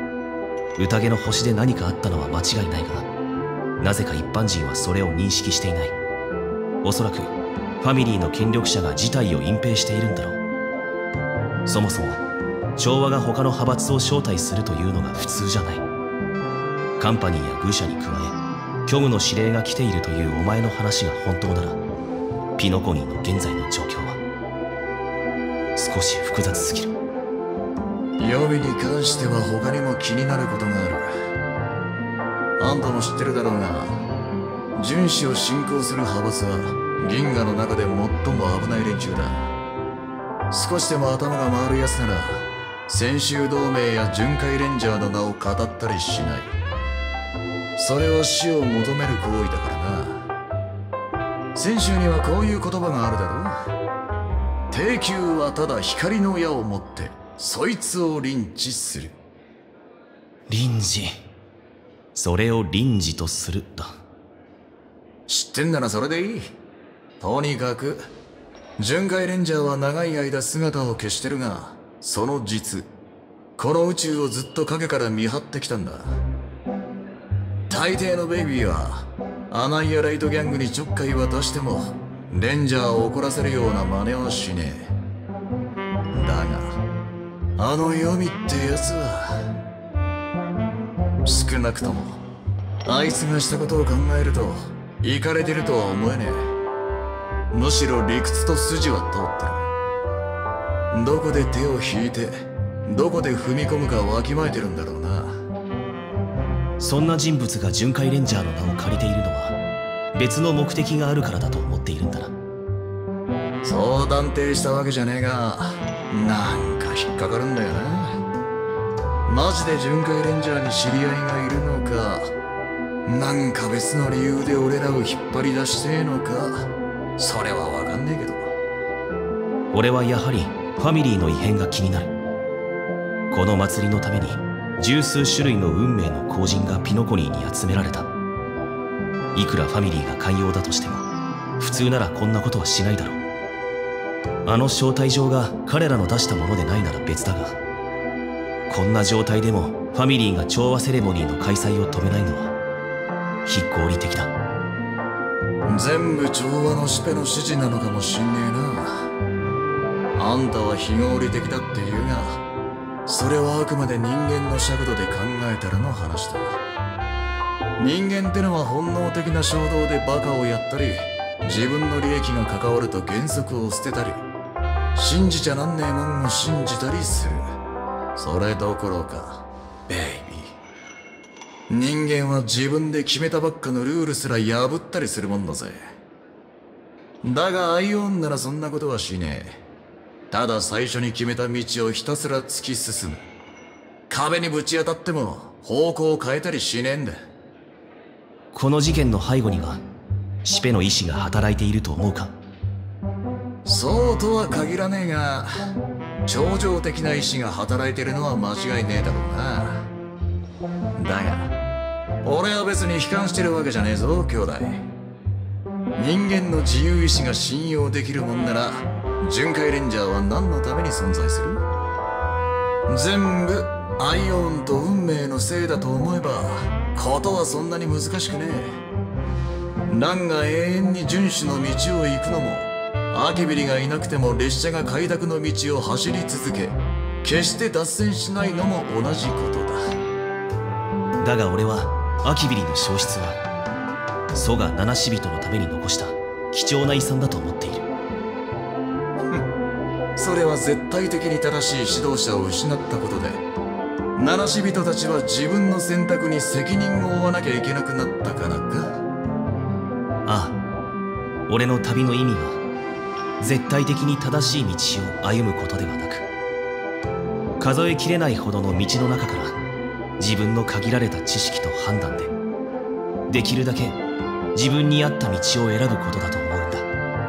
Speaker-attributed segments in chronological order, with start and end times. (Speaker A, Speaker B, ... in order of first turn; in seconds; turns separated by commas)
Speaker A: 0.8-3.1, Speaker A: 3.8-5.9, Speaker A: 6.8-10.4, Speaker A: 11.7-12.2, Speaker A: 12.8-15.8, Speaker A: 17.0-21.8, Speaker A: 22.6-24.2, Speaker A: 25.8-26.9, Speaker B: 28.2-31.1, Speaker B: 32.6-34.0, Speaker B: 34.8-39.5, Speaker B: 40.5-46.5, Speaker B: 47.8-50.3, Speaker B: 51.5-53.6, Speaker B: 54.7-59.1, Speaker A: 60.5-61.1, Speaker A: 62.1-64.0, Speaker B: 65.3-66.5, Speaker B: 67.2-68.0, Speaker B: 68.8-72.9, Speaker B: 73.6-76.2, Speaker B: 77.7-84.9, Speaker B: 86.1-86.8, Speaker B: 87.6-89.5, Speaker B: 91.3-92.2, Speaker B: 92.8-96.5, Speaker B: 97.5-99.7, Speaker B: 100.9-105.4, Speaker A: 106.8-109.6, Speaker A: 110.1-112.3, Speaker B: 113.6-118.2, Speaker B: 119.3-122.3, Speaker B: 123.1-128.5, Speaker A: 129.7-132.1, Speaker A: 133.3-138.1, Speaker A: 139.3-141.1, Speaker A: 141.6-143.2, Speaker A: 144.4-147.6, Speaker A: 148.7-152.5, Speaker A: 153.5-154.3, Speaker B: 155.7-159.1, Speaker B: 160.2-162.4, Speaker B: 163.1-166.6, Speaker B: 167.8-174.2, Speaker B: 174.9-177.6, Speaker B: 178.2-180.5, Speaker B: 181.7-185.8, Speaker B: 187.2-189.6, Speaker B: 190.3-193.2, Speaker B: 194.1-197.2, Speaker A: 198.5-199.8, Speaker A: 200.4-202.3, Speaker B: 203.7-205.5, Speaker B: 206.3-209.9, Speaker B: 211.0-211.5, Speaker B: 212.2-214.9, Speaker B: 216.0-221.6, Speaker B: 222.9-228.8, Speaker B: 229.9-239.8, Speaker A: 241.2-243.4, Speaker A: 244.3-247.9, Speaker B: 250.2-253.4, Speaker B: 254.2-259.0, Speaker A: 260.3-260.6, Speaker A: 261.5-262.6, Speaker A: 263.4-266.3, Speaker A: 267.6-269.6, Speaker A: 270.2-272.3, Speaker A: 273.3-274.0, Speaker A: 274.5-276.9